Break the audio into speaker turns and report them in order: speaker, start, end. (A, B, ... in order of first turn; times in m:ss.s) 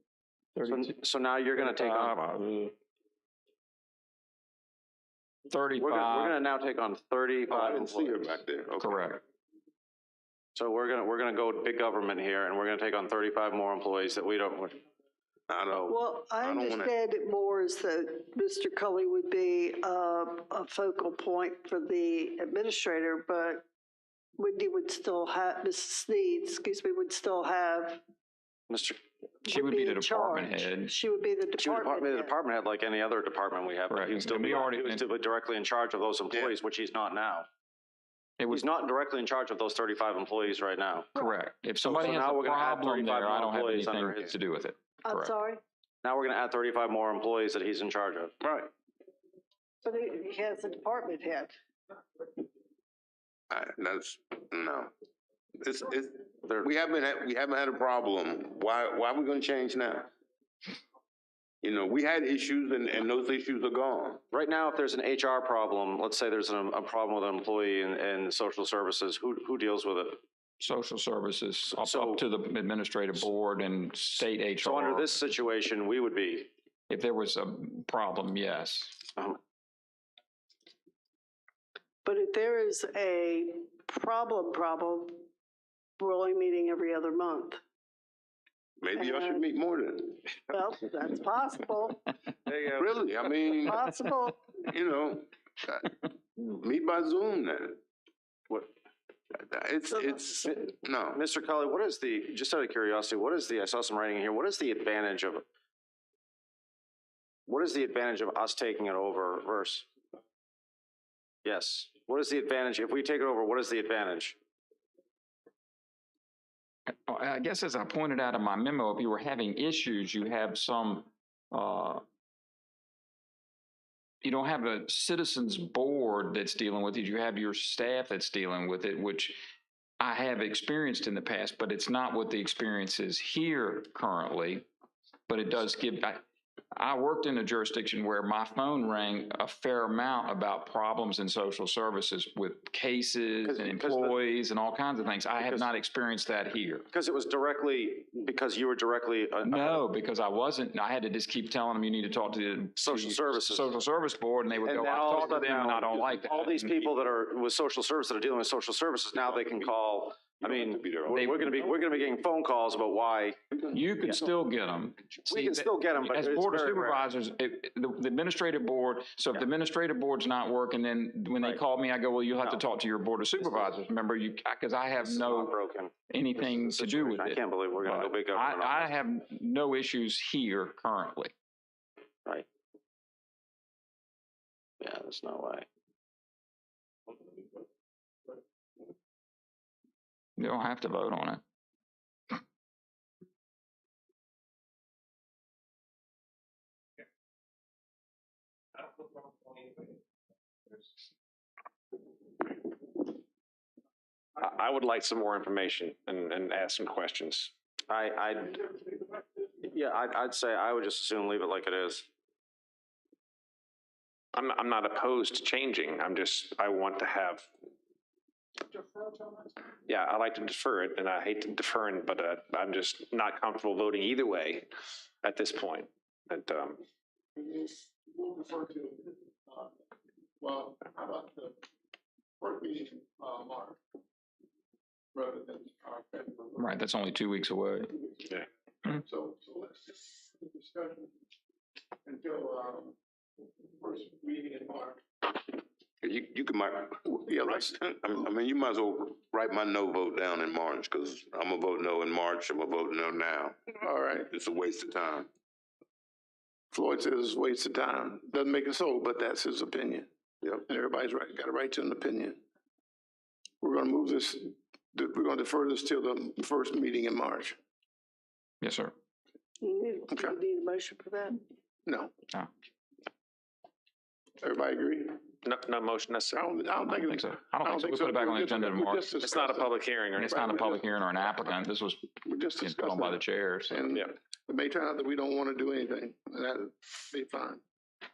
0:00.5-0:00.9 A
0:00.7-0:02.2 B
0:01.6-0:02.7 A
0:05.5-0:06.4 A
0:05.8-0:08.3 B
0:07.5-0:09.0 C
0:08.8-0:09.2 A
0:10.5-0:14.8 B
0:15.5-0:16.9 C
0:15.9-0:23.7 D
0:24.4-0:28.0 D
0:28.7-0:29.0 B
0:29.4-0:32.4 D
0:29.5-0:30.9 A
0:31.6-0:37.5 B
0:33.9-0:35.0 A
0:38.4-0:38.7 A
0:38.5-0:41.1 B
0:41.1-0:45.3 A
0:41.8-0:44.3 B
0:45.0-0:45.6 D
0:46.0-0:48.4 B
0:48.4-0:48.7 C
0:49.8-0:51.5 D
0:53.5-0:54.9 C
0:55.6-1:00.1 C
1:01.6-1:04.2 C
1:04.3-1:10.2 B
1:10.6-1:15.2 A
1:11.7-1:12.2 B
1:14.2-1:16.5 B
1:16.9-1:19.0 A
1:22.0-1:25.3 D
1:26.0-1:27.6 D
1:28.8-1:30.3 C
1:29.0-1:29.4 D
1:30.5-1:32.0 D
1:32.7-1:34.0 C
1:33.6-1:34.4 D
1:34.6-1:37.8 C
1:39.3-1:41.2 C
1:40.4-1:45.4 B
1:47.5-1:49.8 B
1:51.4-1:54.4 B
1:56.9-2:02.0 A
2:04.2-2:09.4 A
2:10.0-2:14.7 A
2:15.3-2:16.2 A
2:16.7-2:26.9 A
2:23.4-2:24.2 B
2:25.4-2:25.7 B
2:26.9-2:29.8 B
2:29.4-2:36.9 A
2:32.8-2:33.7 B
2:34.6-2:43.4 B
2:39.2-2:39.7 C
2:40.4-2:41.3 C
2:41.1-2:41.5 A
2:43.7-2:55.5 A
2:44.0-2:44.3 B
2:45.2-2:47.1 B
2:53.4-2:53.7 B
2:55.0-2:58.9 B
2:56.1-3:01.3 A
3:04.8-3:05.7 B
3:10.4-3:11.4 A
3:24.4-3:27.5 E
3:27.9-3:29.0 B
3:29.6-3:32.0 B
3:34.3-3:37.5 E
3:39.9-3:44.7 E
3:45.2-3:46.8 E
3:47.4-3:49.7 F
3:50.4-3:51.5 F
3:52.4-3:53.8 F
3:55.1-3:56.7 F
3:56.6-3:57.9 A
3:58.9-4:01.1 F
4:02.0-4:02.9 F
4:03.8-4:05.0 F
4:06.0-4:13.6 C
4:07.0-4:07.7 F
4:13.8-4:14.3 F
4:14.3-4:15.3 C
4:16.7-4:20.1 F
4:20.7-4:22.4 F
4:23.6-4:27.6 F
4:28.6-4:28.9 A
4:29.6-4:31.4 D
4:30.1-4:30.4 F
4:31.8-4:32.1 F
4:34.4-4:35.2 F
4:35.4-4:36.5 E
4:36.3-4:40.8 F
4:36.9-4:39.1 A
4:39.2-4:40.7 E
4:40.1-4:43.8 A
4:42.2-4:47.6 F